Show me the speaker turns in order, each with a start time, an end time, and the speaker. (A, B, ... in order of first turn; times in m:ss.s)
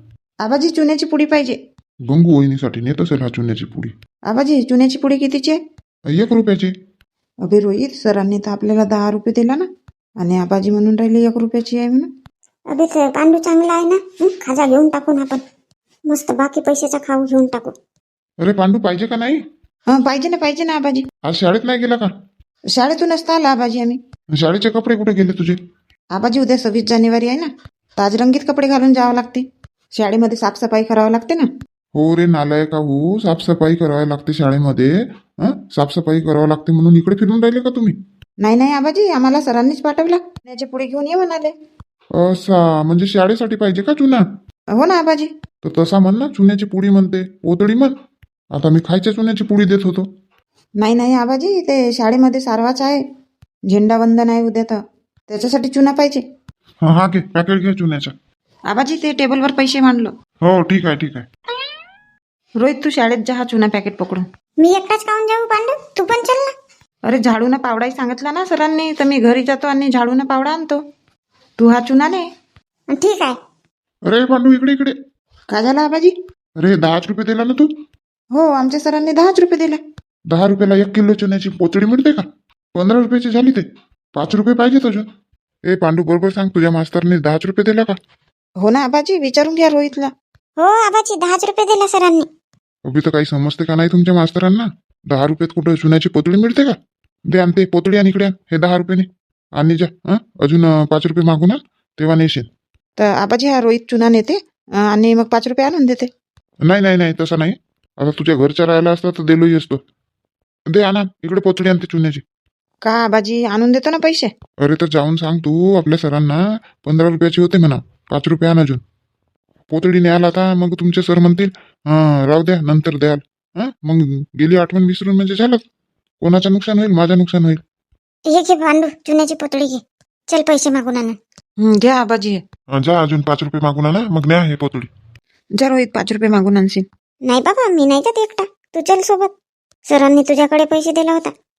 0:00.4-0:01.6 A
0:02.1-0:03.9 B
0:04.3-0:05.6 A
0:06.1-0:06.7 B
0:07.4-0:09.7 A
0:10.2-0:12.1 A
0:12.7-0:15.0 C
0:16.1-0:17.7 C
0:18.4-0:19.4 B
0:19.9-0:21.0 A
0:21.2-0:22.1 B
0:22.7-0:24.0 A
0:24.4-0:25.6 B
0:26.1-0:31.5 A
0:31.9-0:37.9 B
0:38.4-0:41.5 A
0:42.1-0:44.2 B
0:44.7-0:45.3 A
0:45.6-0:47.9 B
0:48.5-0:50.1 B
0:50.8-0:53.0 A
0:53.7-0:56.2 A
0:56.8-0:58.1 B
0:58.7-1:00.1 A
1:00.4-1:01.3 B
1:02.6-1:04.2 A
1:04.6-1:06.5 C
1:07.0-1:10.8 A
1:11.6-1:12.2 A
1:12.9-1:13.4 C
1:14.0-1:14.9 B
1:15.5-1:16.1 A
1:16.6-1:17.7 B
1:18.3-1:19.8 A
1:20.3-1:25.0 B
1:25.6-1:28.0 B
1:28.6-1:30.1 A
1:30.6-1:32.2 C
1:32.8-1:36.8 B
1:37.3-1:42.5 B
1:43.0-1:46.1 A
1:46.6-1:49.8 B
1:50.7-1:52.2 B
1:52.8-1:54.3 A
1:54.6-1:58.8 B
1:59.7-2:05.6 B
2:06.2-2:07.6 B
2:08.3-2:09.8 C
2:10.3-2:11.1 C
2:11.6-2:12.4 A
2:12.7-2:14.9 B
2:15.6-2:16.8 A
2:17.3-2:19.3 C
2:19.9-2:21.3 C